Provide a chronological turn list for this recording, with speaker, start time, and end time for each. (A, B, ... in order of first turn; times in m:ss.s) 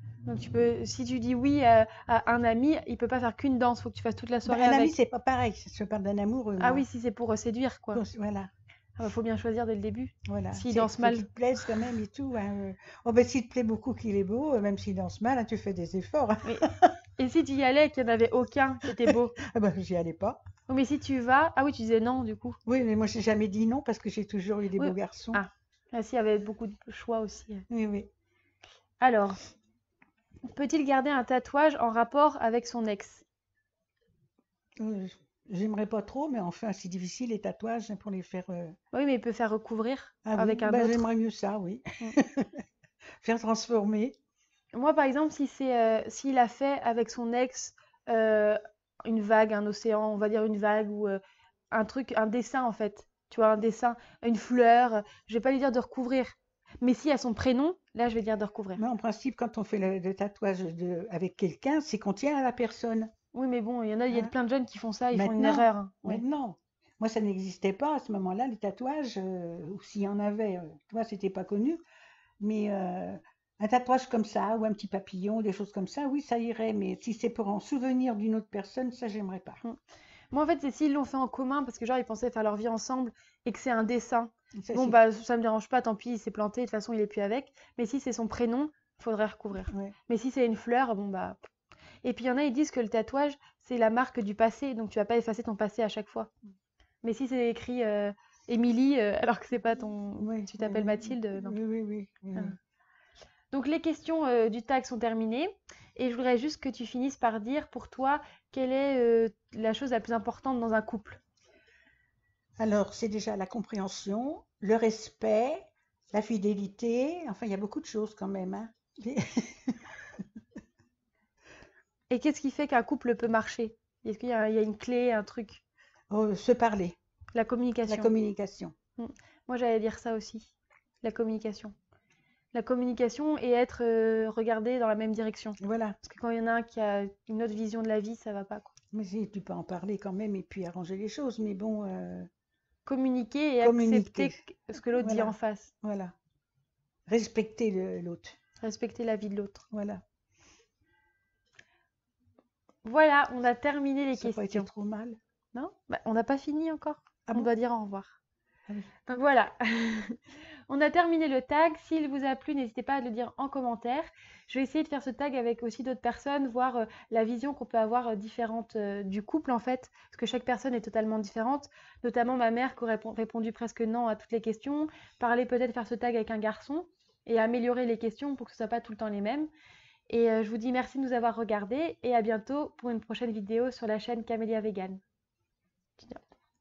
0:00.3-0:05.0 A
0:04.4-0:06.9 B
0:06.6-0:08.0 A
0:07.9-0:08.5 B
0:09.0-0:11.3 A
0:10.3-0:17.0 B
0:16.4-0:19.4 A
0:18.9-0:20.4 B
0:20.7-0:22.6 A
0:22.7-0:25.4 B
0:24.8-0:27.6 A
0:27.7-0:28.1 B
0:29.0-0:29.4 A
0:30.5-0:33.2 A
0:34.8-0:38.8 B
0:38.9-0:41.1 A
0:40.2-0:42.6 B
0:43.2-0:44.2 B
0:44.7-0:51.2 A
0:51.7-0:58.8 A
0:58.8-1:03.1 B
1:03.3-1:06.2 A
1:05.1-1:11.8 B
1:12.4-1:19.6 B
1:20.3-1:31.4 A
1:24.6-1:25.0 B
1:29.7-1:30.0 B
1:32.0-1:36.3 A
1:37.0-1:41.6 A
1:40.2-1:42.5 B
1:43.5-1:51.2 A
1:52.6-2:00.0 B
2:02.1-2:05.6 A
2:06.1-2:07.0 B
2:07.3-2:08.1 A
2:07.9-2:08.7 B
2:09.0-2:11.7 A
2:12.5-2:18.7 A
2:15.6-2:16.0 B
2:18.9-2:22.3 B
2:22.9-2:25.7 A
2:23.6-2:24.4 B
2:25.0-2:26.1 B
2:27.1-2:28.4 B
2:28.6-2:29.6 A
2:29.7-2:30.0 B
2:32.8-2:34.7 A
2:34.1-2:35.2 B
2:35.5-2:38.2 A
2:39.1-2:59.5 A
3:00.1-3:05.0 A